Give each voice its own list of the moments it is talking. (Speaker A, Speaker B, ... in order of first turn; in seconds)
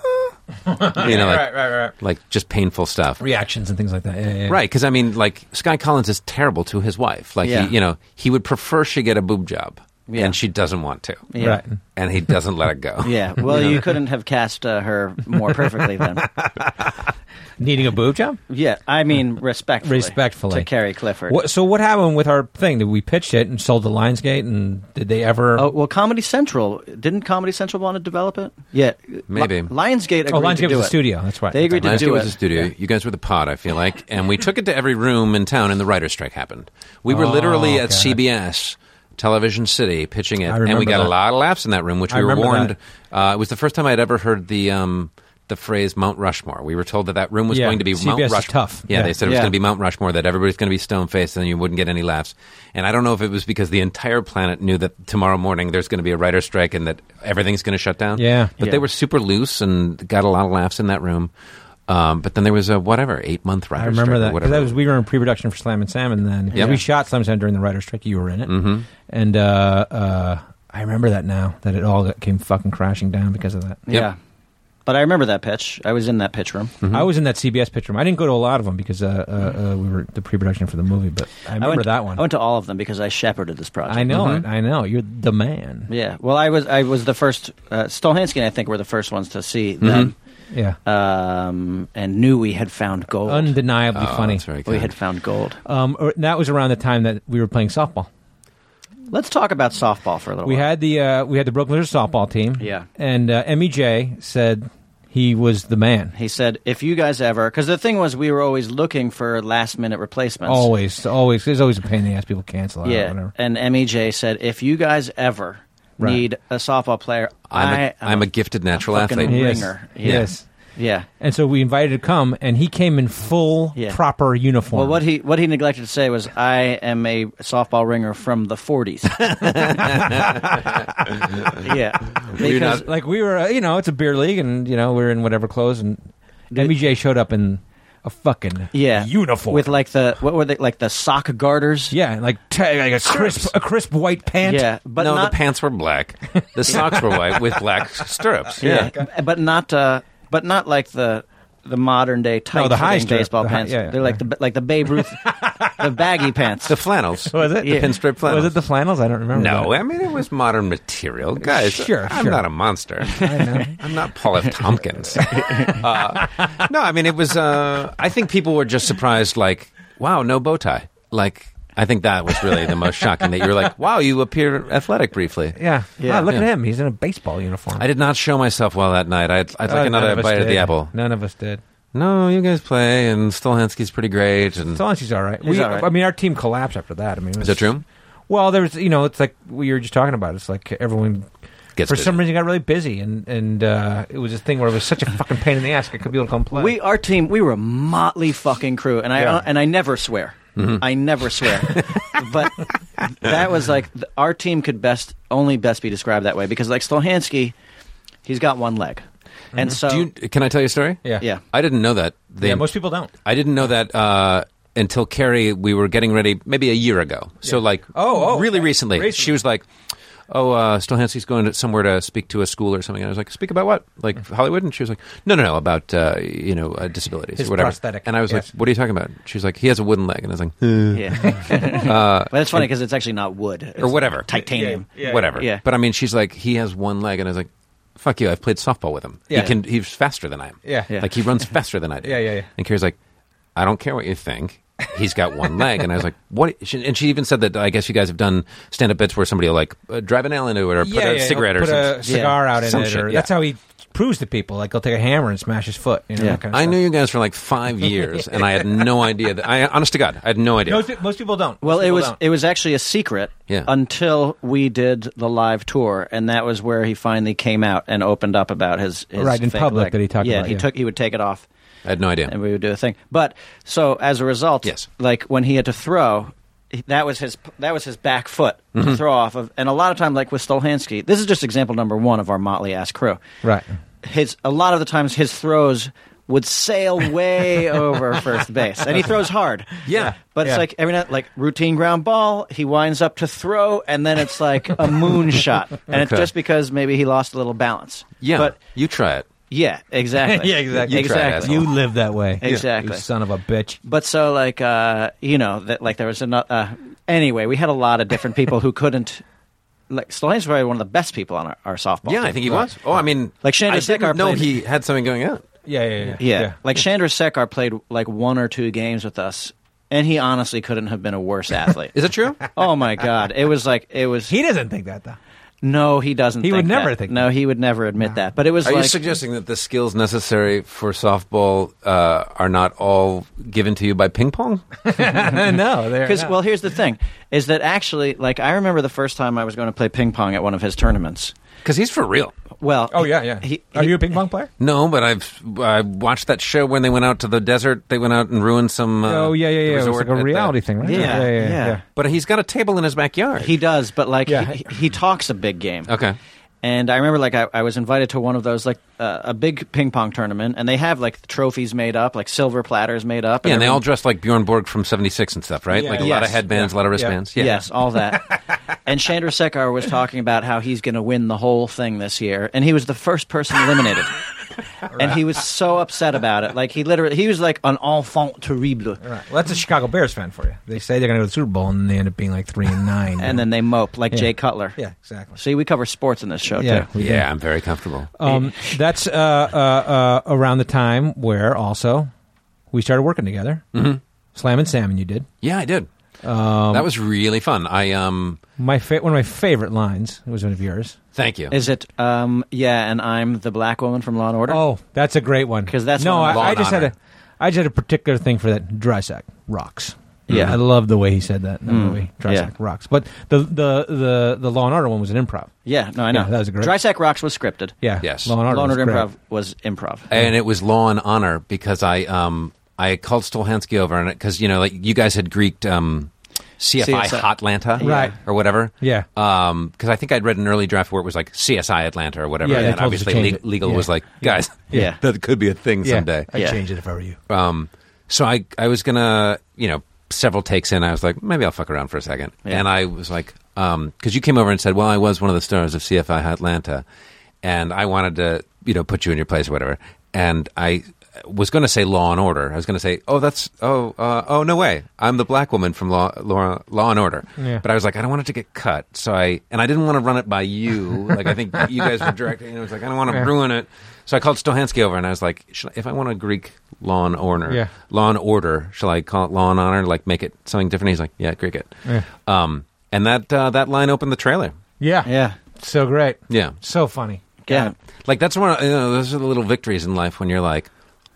Speaker A: 0.6-1.9, 3.2-4.6, 11.4-11.7, 13.5-13.8, 15.6-16.9, 17.6-18.4, 19.8-20.7, 21.3-25.7, 30.3-32.7, 37.1-38.2, 40.4-41.1, 42.1-42.7, 47.5-49.1, 58.1-58.5, 63.8-73.9, 76.9-82.2, 83.9-85.9, 90.5-90.8, 93.2-94.4, 95.6-98.1, 100.4-106.1, 110.4-113.3, 119.2-120.4, 121.2-125.0, 129.6-130.7, 132.4-136.0, 136.5-139.7, 141.9-144.7, 146.4-149.1, 152.5-154.2, 155.2-155.9, 157.3-159.8, 161.4-162.4, 163.1-163.8, 165.2-166.6, 175.6-177.8, 179.6-181.6, 184.7-187.7, 188.3-191.3, 191.9-196.7, 212.4-213.1, 217.5-219.3, 227.4-228.5, 234.3-235.3, 239.3-239.5, 240.6-240.9, 242.0-242.5, 250.8-256.8, 260.6-262.2, 269.2-270.7, 289.9-290.6, 300.2-303.8, 315.6-316.6, 324.3-325.2, 326.4-327.2, 334.8-336.4, 342.9-344.5, 349.0-351.8, 354.3-354.6, 365.7-367.2, 374.9-375.2, 379.0-383.4, 384.1-385.4, 386.6-387.3, 388.2-392.1, 392.7-393.6, 394.3-395.3, 396.2-396.9, 398.6-401.0, 404.5-415.5, 416.1-416.7, 417.8-419.1, 427.8-428.2, 428.8-429.1, 432.4-434.9, 435.8-437.2, 457.4-457.6, 474.8-477.6
Speaker B: 0.9-3.2, 4.5-11.3, 11.9-13.8, 29.3-29.7, 31.8-61.3, 61.9-64.7, 68.5-68.8, 84.1-84.4, 89.8-90.1, 93.9-94.9, 117.5-120.3, 129.4-131.6, 132.3-132.8, 145.0-148.9, 156.7-158.5, 159.3-175.6, 177.8-180.9, 181.9-184.8, 187.4-187.8, 191.8-192.2, 200.6-200.8, 201.6-202.1, 209.7-219.7, 220.3-232.7, 233.8-234.3, 234.9-242.9, 243.6-253.3, 256.5-260.9, 271.8-272.3, 289.9-290.1, 295.9-296.3, 298.2-299.3, 300.8-301.7, 312.1-315.4, 321.9-322.5, 328.6-334.6, 341.6-342.3, 344.6-351.3, 351.9-353.5, 355.9-356.2, 363.4-367.6, 387.0-388.1, 393.7-394.0, 395.4-395.9, 396.7-398.4, 401.1-401.5, 406.3-406.9, 410.3-410.6, 418.0-418.4, 420.1-436.3, 437.3-446.8, 447.4-474.5, 476.3-476.6, 478.0-480.7
Speaker C: 7.4-7.7, 10.1-10.3, 11.3-11.6, 13.0-16.3, 18.5-21.4, 25.6-31.0, 31.5-32.3, 49.2-49.5, 66.5-66.8, 73.9-74.2, 74.8-76.7, 81.6-84.2, 85.9-90.1, 90.8-93.5, 94.7-95.6, 99.1-100.7, 102.6-102.8, 106.1-110.7, 112.8-121.0, 124.7-129.5, 131.6-132.8, 138.7-141.9, 144.4-145.4, 148.6-156.8, 157.6-157.9, 163.1-163.7, 165.2-165.8, 176.0-176.3, 185.4-185.9, 196.5-207.5, 208.2-210.1, 230.9-235.6, 252.0-252.4, 261.6-271.4, 272.3-283.2, 284.0-298.6, 299.5-301.6, 302.4-303.1, 303.8-309.2, 309.9-312.6, 313.4-314.5, 316.2-324.3, 325.6-329.0, 336.0-341.3, 342.6-344.0, 350.8-351.8, 353.4-355.9, 356.6-363.8, 366.0-366.4, 367.4-374.2, 374.9-379.0, 383.2-384.8, 385.4-386.9, 388.2-388.8, 401.5-404.6, 405.7-406.6, 411.7-412.5, 415.6-417.7, 418.4-420.1, 426.8-428.1, 432.5-432.8, 434.7-435.0, 436.3-436.6, 475.0-475.4, 477.4-477.7